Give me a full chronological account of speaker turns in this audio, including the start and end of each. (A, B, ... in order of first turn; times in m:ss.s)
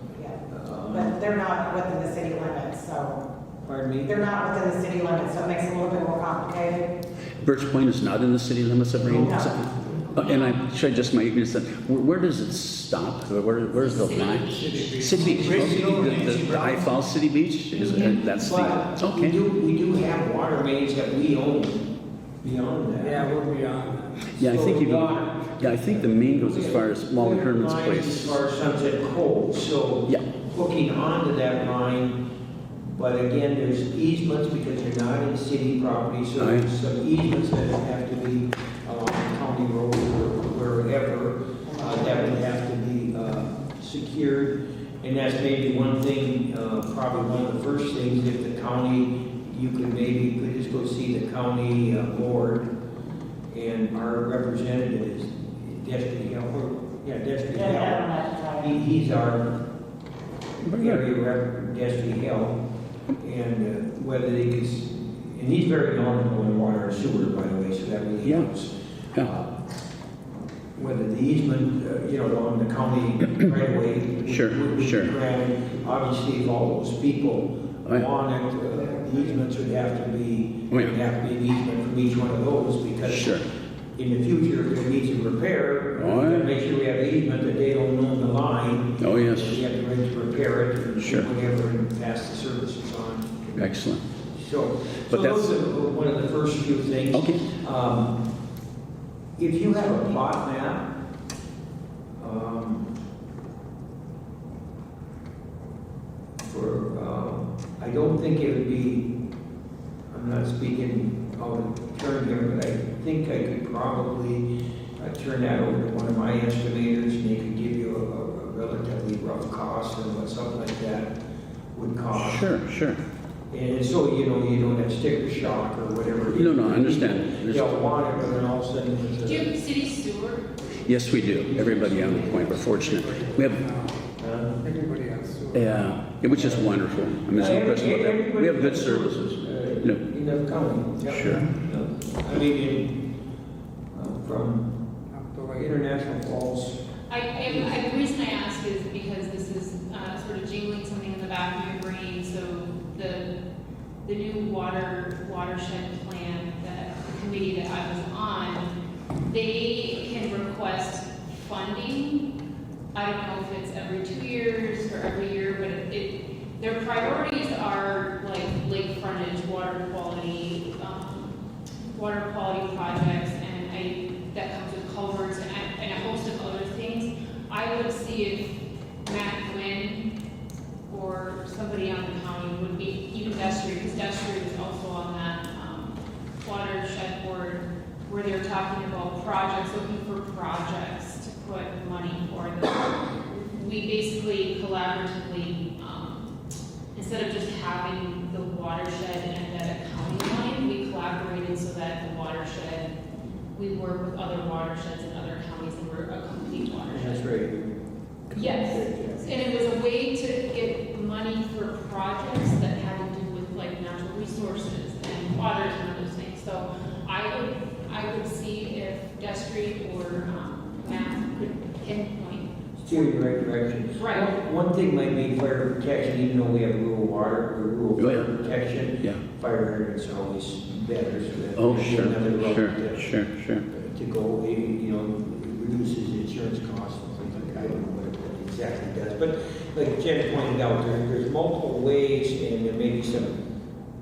0:00.5-0:01.2 A
0:00.9-0:03.2 B
0:03.6-0:04.2 A
0:04.0-0:06.9 B
0:07.4-0:19.4 C
0:09.0-0:09.5 B
0:13.8-0:15.7 D
0:14.5-0:16.9 E
0:17.8-0:21.9 A
0:22.4-0:23.3 A
0:23.0-0:24.3 E
0:24.4-0:28.4 C
0:24.4-0:32.2 A
0:32.8-0:52.7 A
0:36.4-0:36.7 C
0:41.7-0:42.4 B
0:53.5-0:59.5 A
0:57.6-0:58.7 B
1:00.6-1:01.0 C
1:00.6-1:02.6 A
1:03.2-1:09.5 A
1:10.8-1:23.4 A
1:14.3-1:15.1 C
1:20.7-1:21.0 C
1:23.1-1:23.4 C
1:24.0-1:33.8 A
1:26.0-1:26.5 C
1:29.0-1:29.6 C
1:31.0-1:31.3 C
1:33.6-1:34.0 C
1:34.3-1:38.1 A
1:35.1-1:35.6 C
1:37.1-1:37.4 C
1:39.4-1:40.9 A
1:42.2-1:42.9 A
1:46.4-1:49.1 A
1:50.1-1:54.5 A
1:55.0-2:01.1 A
2:01.7-2:02.4 A
2:02.1-2:03.0 C
2:03.5-2:09.5 A
2:06.3-2:07.8 C
2:09.2-2:10.5 D
2:10.9-2:13.6 C
2:11.2-2:12.5 A
2:12.1-2:12.4 D
2:12.6-2:14.0 E
2:14.2-2:14.6 A
2:14.6-2:15.9 E
2:15.5-2:20.0 C
2:16.3-2:16.7 A
2:17.3-2:23.0 A
2:21.1-2:21.5 C
2:23.9-2:24.8 A
2:25.1-2:25.7 E
2:25.6-2:26.8 A
2:27.1-2:33.3 D
2:27.4-2:27.7 A
2:34.0-2:38.7 D
2:39.2-2:42.3 D
2:42.9-3:00.1 D
3:00.9-3:16.3 D
3:16.9-3:22.9 D
3:23.6-3:27.3 D
3:26.9-3:27.7 A
3:28.3-3:29.3 A
3:28.3-3:43.1 D
3:42.9-3:53.2 A
3:43.9-3:44.3 D
3:48.0-3:48.3 C
3:51.6-3:53.6 C
3:53.7-4:03.4 A